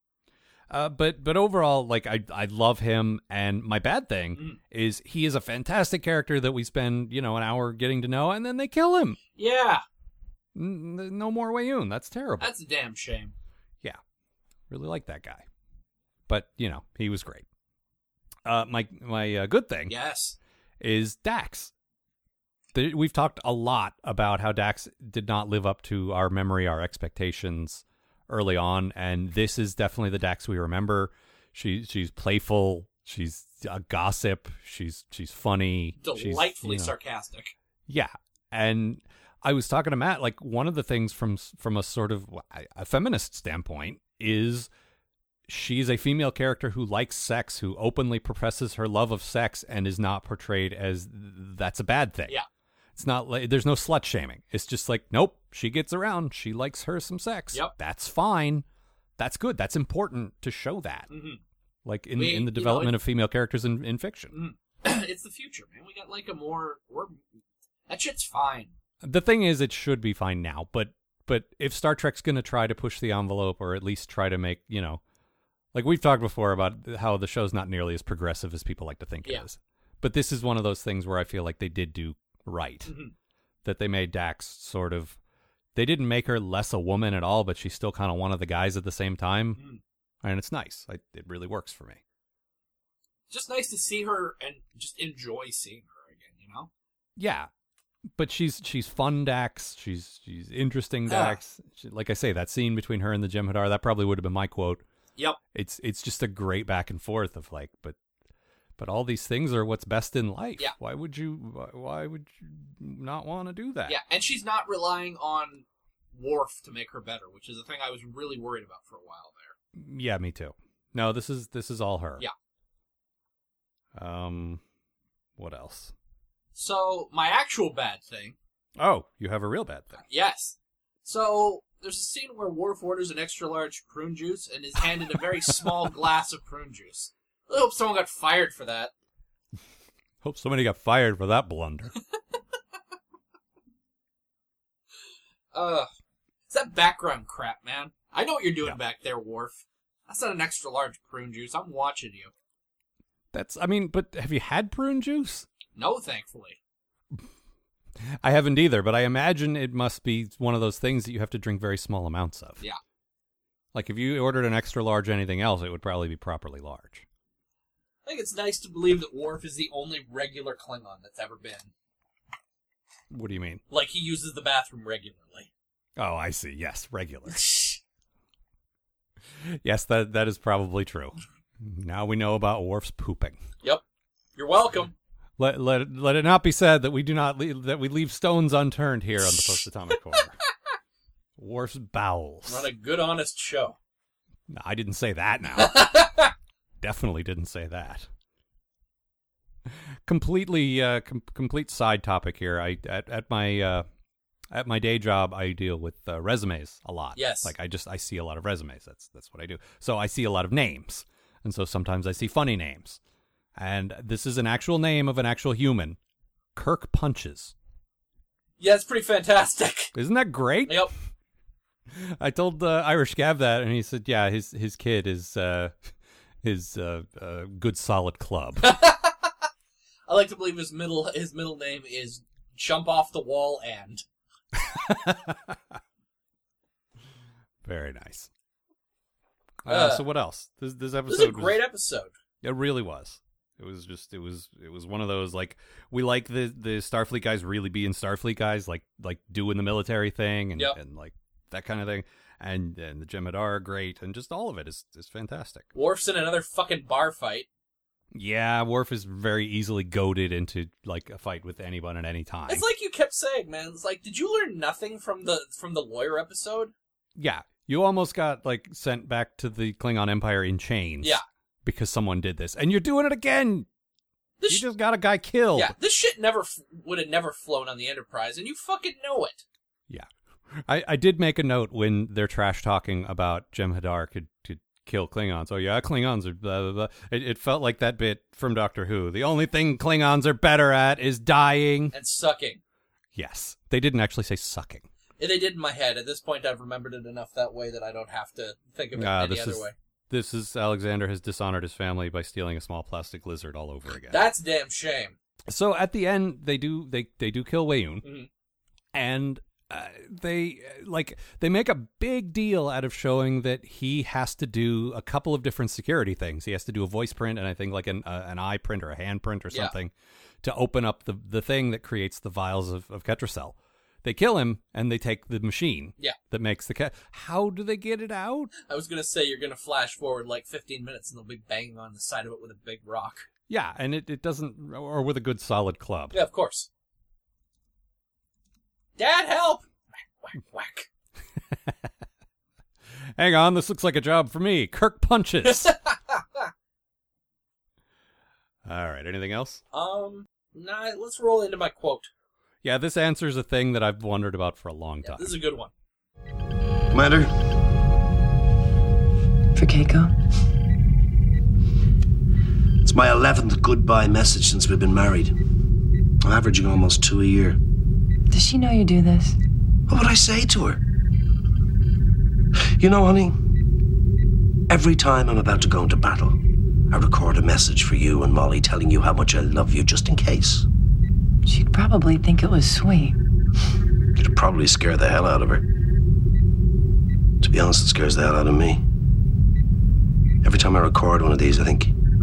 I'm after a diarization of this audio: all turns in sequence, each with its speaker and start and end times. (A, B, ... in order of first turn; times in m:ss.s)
0:00.7-0:09.2 A
0:09.4-0:09.8 B
0:10.5-0:12.5 A
0:12.4-0:13.3 B
0:14.7-0:15.4 A
0:16.3-0:17.4 A
0:18.4-0:19.9 A
0:19.9-0:20.4 B
0:20.8-0:21.7 A
0:22.7-0:36.9 A
0:36.0-0:37.5 B
0:37.9-0:44.7 A
0:45.5-0:52.4 A
0:53.0-0:58.6 A
0:59.2-1:01.1 A
1:01.1-1:01.4 B
1:01.8-1:04.3 A
1:02.2-1:02.9 B
1:04.3-1:07.2 B
1:07.9-1:08.7 B
1:09.0-1:15.0 A
1:15.7-1:22.9 A
1:22.8-1:23.1 B
1:23.6-1:25.2 A
1:25.7-1:29.6 A
1:30.2-1:32.0 A
1:33.3-1:36.7 B
1:37.2-1:37.5 A
1:38.2-1:44.8 A
1:41.1-1:41.4 B
1:45.5-1:48.0 A
1:48.8-1:54.0 A
1:53.9-1:59.5 B
1:59.7-2:02.2 A
2:03.9-2:04.6 A
2:05.4-2:05.9 A
2:06.5-2:08.4 B
2:08.8-2:10.0 A
2:10.0-2:18.9 B
2:20.2-2:21.9 A
2:25.5-2:25.9 B
2:26.5-2:32.3 B
2:33.3-2:35.5 A
2:35.8-2:36.6 B
2:38.2-2:42.6 A
2:43.7-2:47.0 A
2:48.0-2:51.7 B
2:53.1-2:53.6 A
2:53.7-2:55.5 B
2:56.0-2:57.5 A
2:57.4-2:57.8 B
2:59.4-3:03.4 A
3:04.4-3:04.9 B
3:05.4-3:10.4 A
3:11.4-3:12.7 A
3:12.5-3:13.8 B
3:14.5-3:15.9 A
3:15.6-3:16.3 B
3:16.8-3:18.1 A
3:20.0-3:23.8 A
3:24.5-3:33.0 A
3:27.2-3:27.5 B
3:33.6-3:36.0 A
3:36.6-3:37.5 A
3:38.6-3:39.9 B
3:39.9-3:40.9 A
3:40.6-3:40.9 B
3:41.9-3:45.8 A
3:46.4-3:48.7 A
3:48.6-3:49.3 B
3:50.1-3:54.0 B
3:54.5-3:55.6 A
3:57.6-3:58.3 A
3:59.6-4:01.6 A
3:59.7-4:00.0 B
4:01.1-4:02.1 B
4:02.4-4:15.7 A
4:15.7-4:17.5 B
4:18.1-4:22.6 A
4:22.5-4:26.7 B
4:27.2-4:33.7 A
4:34.4-4:34.6 B
4:34.5-4:35.7 A
4:35.5-4:39.4 B
4:39.9-4:51.9 A
4:51.9-4:52.6 B
4:53.1-4:54.9 A
4:55.2-4:59.7 B
4:58.9-5:04.3 A
5:04.1-5:05.1 B
5:05.5-5:08.0 A
5:08.0-5:08.3 B
5:08.9-5:28.5 A
5:28.6-5:33.3 B
5:33.5-5:36.2 A
5:36.1-5:36.7 B
5:39.0-5:39.7 B
5:40.2-5:40.9 B
5:43.2-5:45.7 A
5:45.4-5:46.5 B
5:48.6-5:49.6 A
5:49.7-5:52.1 B
5:52.6-5:55.3 A
5:55.0-5:55.7 B
5:56.9-5:57.3 C
5:59.5-6:00.1 D
6:02.8-6:05.3 C
6:06.2-6:07.6 C
6:08.3-6:09.4 D
6:09.9-6:10.8 C
6:12.8-6:13.3 C
6:14.7-6:16.4 C
6:16.9-6:20.6 C
6:21.4-6:23.1 D
6:24.2-6:25.6 C
6:27.4-6:28.8 C
6:30.4-6:31.9 C